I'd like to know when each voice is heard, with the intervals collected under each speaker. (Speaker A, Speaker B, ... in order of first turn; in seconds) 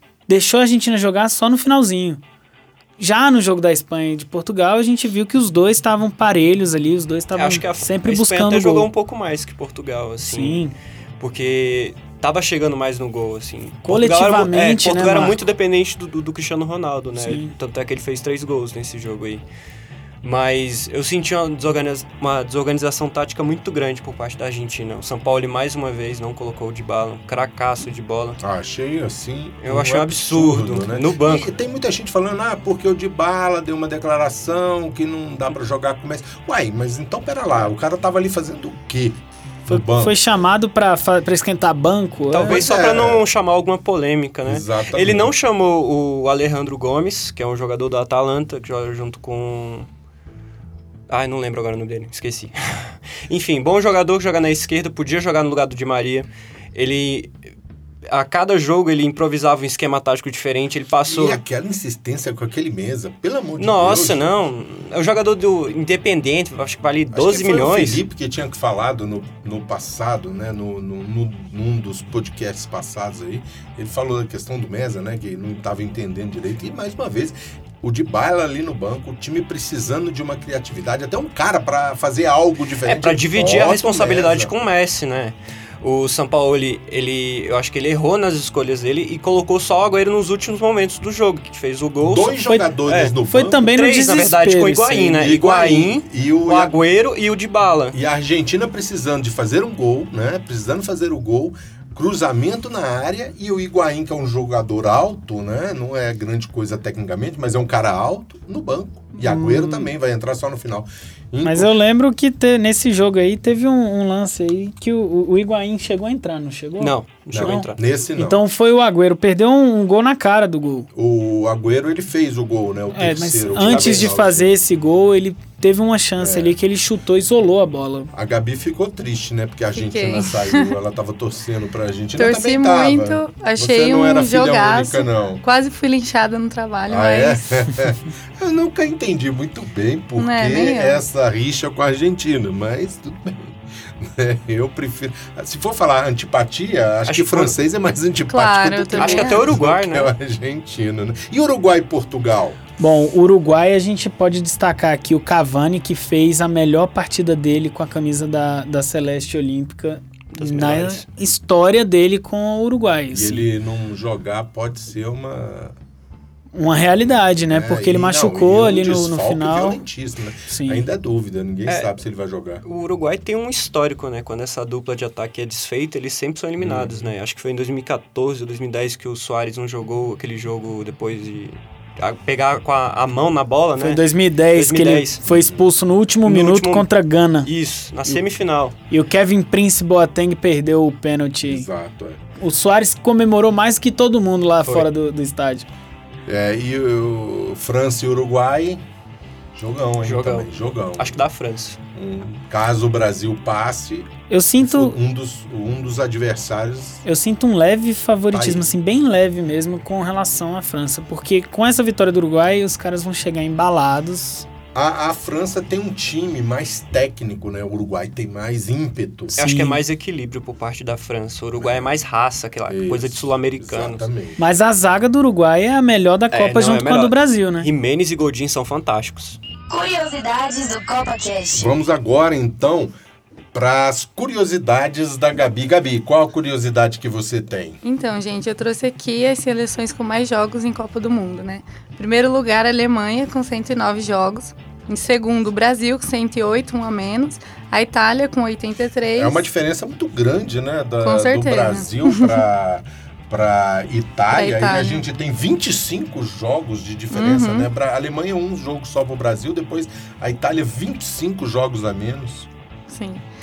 Speaker A: 0.3-2.2, 3.0-8.9, 10.2-10.7, 13.8-15.4, 17.2-17.5, 39.7-42.6, 93.3-95.2, 109.2-109.9, 111.4-120.9, 122.9-128.1, 152.8-163.5, 166.6-169.8, 170.5-170.9, 183.8-187.5, 188.9-191.7, 192.4-195.7, 204.3-205.0, 207.0-214.5, 219.4-219.8, 224.4-227.7
Speaker B: 7.3-10.6, 11.2-19.4, 20.2-28.4, 29.6-31.5, 42.3-49.9, 51.1-57.4, 58.1-61.4, 63.6-68.0, 82.8-98.0, 116.8-117.8, 123.6-124.1, 147.1-147.6, 148.9-150.1, 160.3-161.0, 171.7-171.9, 172.6-185.2, 186.2-186.9, 187.4-188.8, 200.0-201.8, 219.4-224.1, 226.3-229.4
Speaker C: 28.4-40.2, 42.4-43.2, 44.5-45.3, 61.1-64.3, 67.1-84.5, 92.0-93.6, 95.1-96.8, 97.9-111.7, 117.3-118.4, 120.9-124.6, 126.2-126.5, 128.1-135.4, 136.9-152.6, 163.1-165.8, 167.1-172.6, 176.6-177.0, 185.2-185.6, 191.5-192.2, 196.3-198.8, 199.6-201.2, 201.9-204.1, 204.6-207.0, 208.3-208.7, 214.8-219.4, 221.6-221.9, 222.7-224.4, 231.5-232.9, 233.5-237.8, 249.2-262.5
Speaker D: 129.8-130.8, 132.2-137.7, 140.2-141.0, 148.3-149.5, 237.8-249.4, 251.0-252.4, 254.3-255.0, 257.1-257.7, 262.9-263.2
Speaker E: 229.7-231.7